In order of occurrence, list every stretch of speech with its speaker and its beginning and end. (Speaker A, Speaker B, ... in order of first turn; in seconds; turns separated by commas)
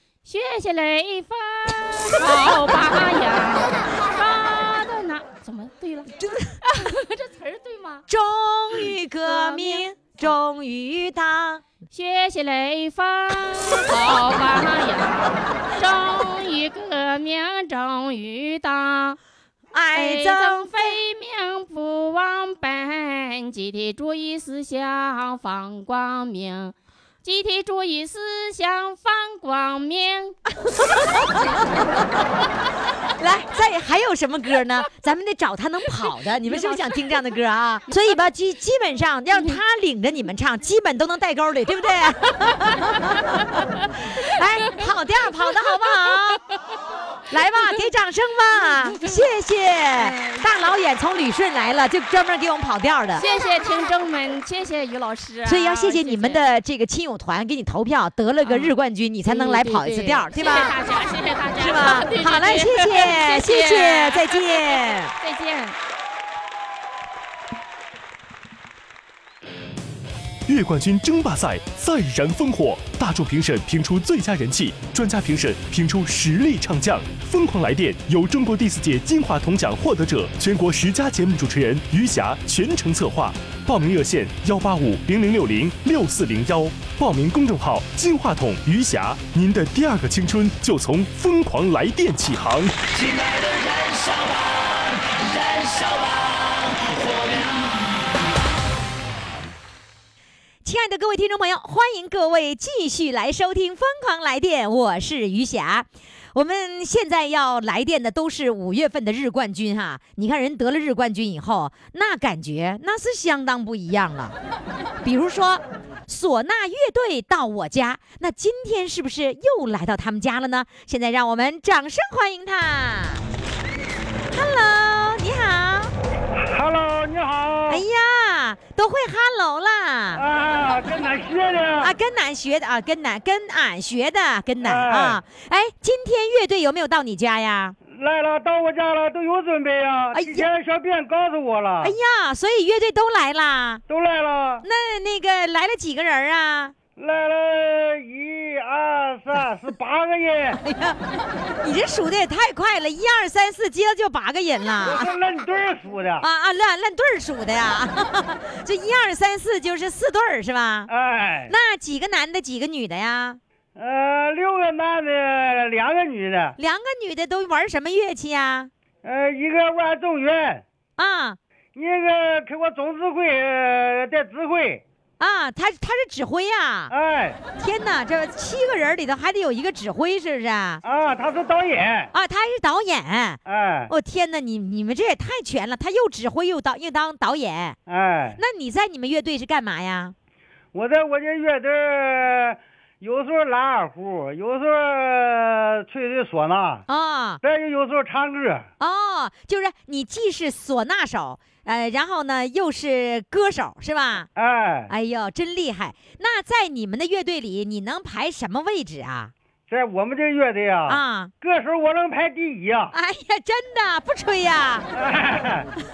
Speaker A: 0.3-6.1, Speaker B: 2.2-2.9, Speaker B: 6.2-6.6, Speaker A: 6.6-8.1, Speaker B: 8.1-11.6, Speaker A: 9.2-9.9, Speaker A: 11.9-19.2, Speaker B: 13.3-14.5, Speaker B: 19.7-20.8, Speaker A: 19.9-30.4, Speaker B: 30.6-32.0, Speaker B: 33.1-46.4, Speaker A: 36.5-37.0, Speaker A: 43.8-44.8, Speaker B: 47.3-53.2, Speaker A: 50.0-50.5, Speaker A: 53.2-56.4, Speaker B: 55.5-60.8, Speaker A: 58.4-58.7, Speaker A: 59.3-65.8, Speaker B: 61.6-65.1, Speaker C: 70.5-92.8, Speaker D: 92.9-97.8, Speaker B: 100.6-114.4, Speaker B: 115.0-123.2, Speaker B: 124.3-125.9, Speaker E: 126.4-127.8, Speaker B: 127.7-130.2, Speaker E: 130.2-131.9, Speaker B: 131.8-137.8, Speaker E: 134.6-135.2, Speaker E: 137.9-141.9, Speaker B: 140.1-140.5, Speaker B: 141.8-143.8, Speaker E: 143.9-144.7, Speaker B: 144.6-146.8, Speaker E: 147.0-150.6, Speaker B: 150.6-151.0, Speaker B: 151.6-155.1, Speaker E: 154.8-156.2, Speaker B: 156.2-160.9, Speaker E: 160.9-161.5, Speaker B: 161.5-163.4, Speaker E: 163.8-166.6, Speaker B: 166.6-168.7, Speaker E: 169.0-170.6, Speaker B: 171.0-171.4, Speaker E: 171.8-174.8, Speaker B: 175.2-176.9, Speaker E: 176.9-177.4, Speaker B: 177.6-180.8, Speaker E: 180.8-182.1, Speaker B: 182.1-187.8, Speaker E: 183.5-183.9, Speaker E: 187.9-188.4, Speaker B: 188.4-190.2, Speaker E: 190.7-196.8, Speaker B: 196.9-197.4, Speaker E: 197.4-198.7, Speaker B: 198.8-204.3, Speaker E: 204.4-204.9, Speaker B: 204.9-209.3, Speaker E: 209.7-212.9, Speaker B: 210.9-211.3, Speaker B: 212.9-214.9, Speaker E: 214.9-215.7